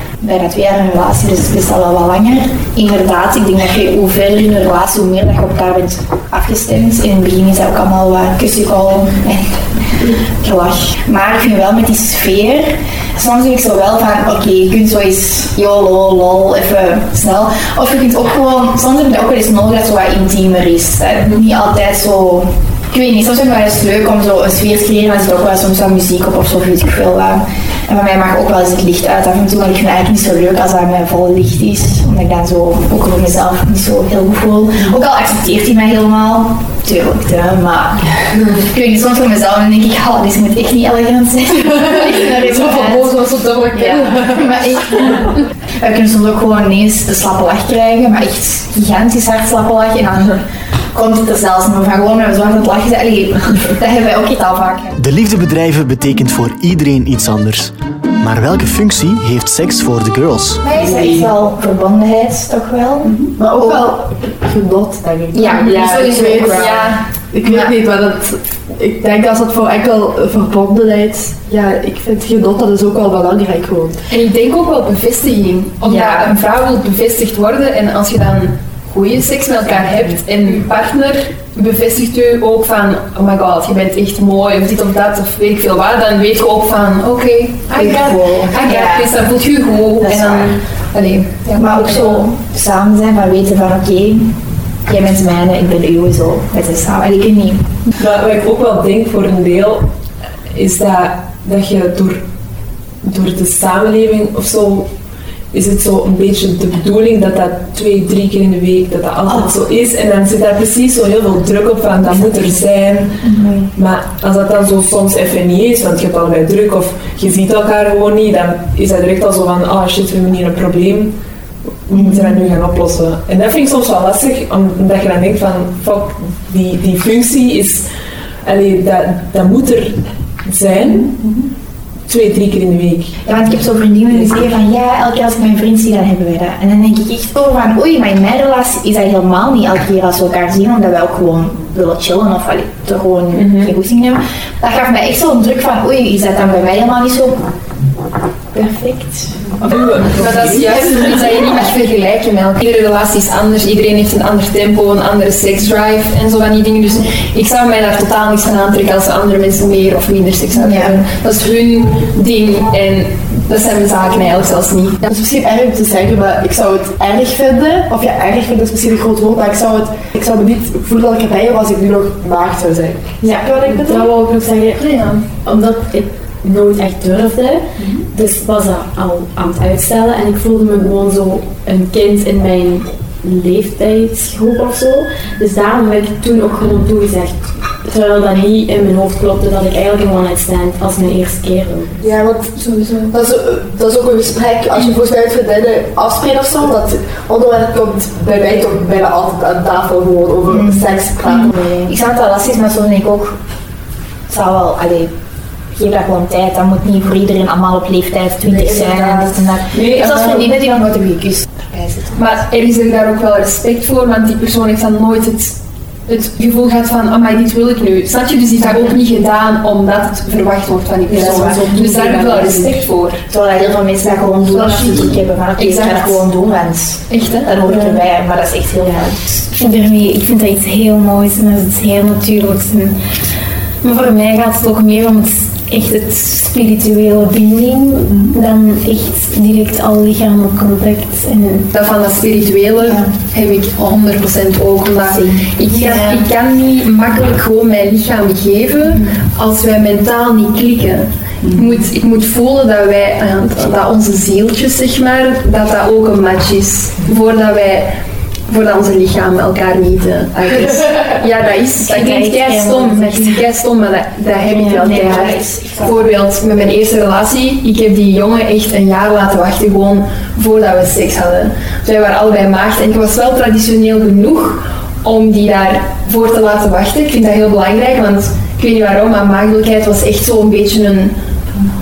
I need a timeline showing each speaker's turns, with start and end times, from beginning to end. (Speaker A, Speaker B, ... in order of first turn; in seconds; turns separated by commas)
Speaker A: 0.2-54.9, Speaker B: 42.2-44.4, Speaker C: 55.0-60.6, Speaker A: 60.6-63.9, Speaker B: 63.3-74.0, Speaker A: 65.3-67.7, Speaker D: 65.5-67.0, Speaker D: 74.1-92.2, Speaker A: 75.8-76.3, Speaker A: 87.7-89.2, Speaker A: 90.0-90.6, Speaker A: 91.5-97.7, Speaker E: 98.0-99.9, Speaker E: 100.5-102.2, Speaker E: 103.0-104.9, Speaker E: 105.5-121.2, Speaker A: 109.3-109.5, Speaker A: 113.2-113.7, Speaker E: 121.9-127.9, Speaker A: 121.9-122.5, Speaker E: 128.4-131.2, Speaker E: 132.1-133.2, Speaker A: 133.2-147.4, Speaker E: 143.3-143.7, Speaker A: 148.5-151.6, Speaker E: 149.6-151.1, Speaker D: 150.1-165.1, Speaker A: 160.5-161.1, Speaker B: 165.0-174.1, Speaker F: 173.2-192.0, Speaker B: 192.0-201.9, Speaker A: 200.5-203.4, Speaker A: 204.3-205.1, Speaker A: 205.7-212.3, Speaker E: 208.8-209.1, Speaker D: 209.8-210.4, Speaker E: 210.0-210.4, Speaker D: 212.2-223.2, Speaker A: 221.1-229.4, Speaker D: 224.5-226.2, Speaker D: 227.1-227.8, Speaker G: 229.4-233.0, Speaker G: 233.8-241.7, Speaker D: 241.7-257.9, Speaker A: 242.8-243.1, Speaker A: 245.0-245.7, Speaker G: 245.7-246.1, Speaker D: 258.5-281.1, Speaker G: 261.8-263.4, Speaker A: 264.4-266.0, Speaker G: 264.5-265.1